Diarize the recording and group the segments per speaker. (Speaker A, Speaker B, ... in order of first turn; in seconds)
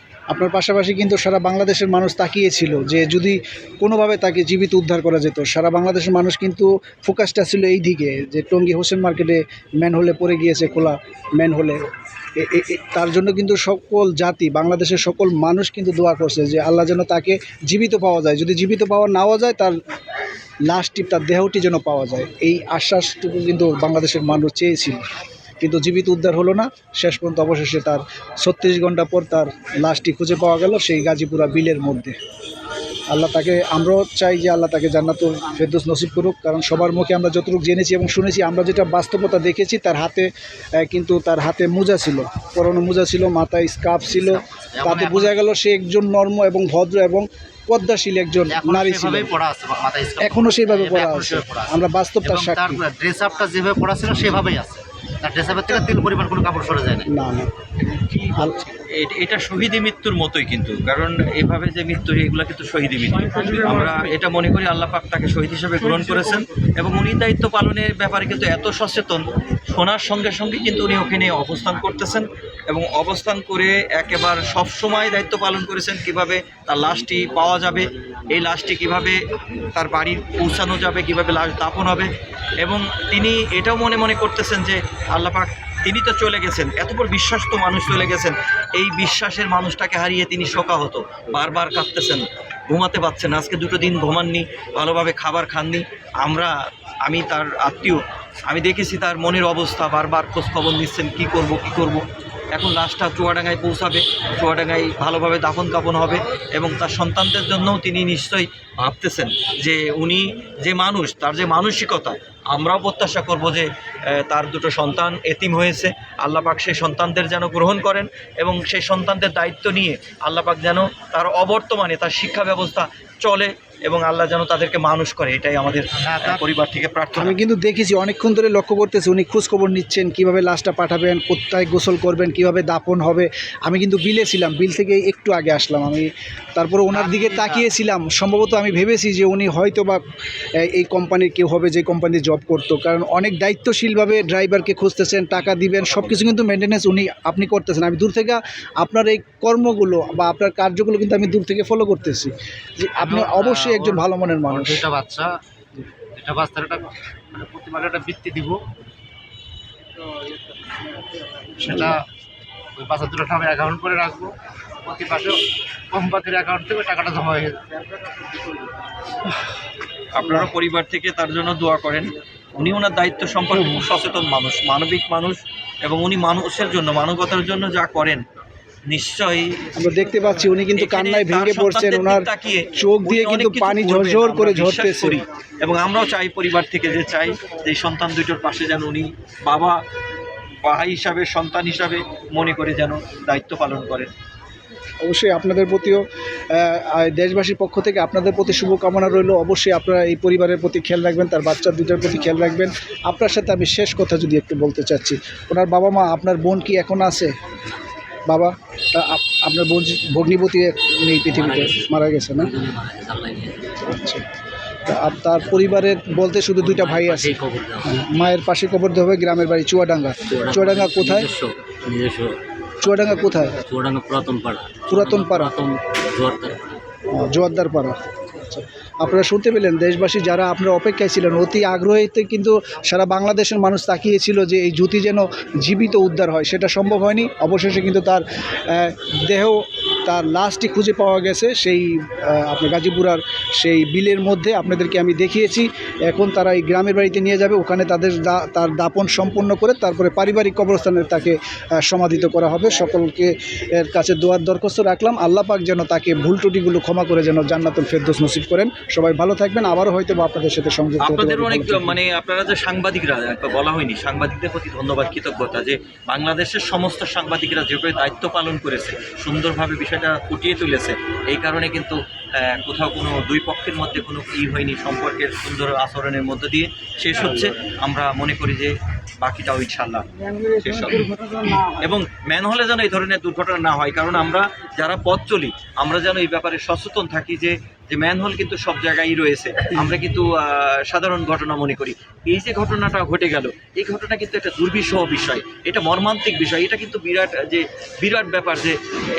Speaker A: 0.3-11.8, 12.4-19.8, 20.7-25.0, 25.6-32.2, 33.1-40.3, 40.8-49.3, 50.2-52.8, 57.1-57.7, 58.4-58.6, 127.2-140.0, 140.6-154.8, 179.8-185.2, 195.0-207.3, 208.3-212.5, 213.8-214.2, 214.8-221.3, 222.8-223.6, 224.9-225.5, 227.1-262.0
Speaker B: 44.1-45.5, 48.5-57.1, 125.9-126.5, 136.9-137.7, 145.9-146.2, 153.0-155.3, 156.1-158.6, 161.5-162.0, 162.8-167.6
Speaker C: 57.8-82.1, 82.6-96.5, 97.0-102.0, 102.5-127.4, 170.1-178.2, 178.9-179.7, 180.8-189.8, 190.7-194.1, 261.0-298.8
Speaker D: 211.3-213.8, 216.6-218.0, 220.3-226.8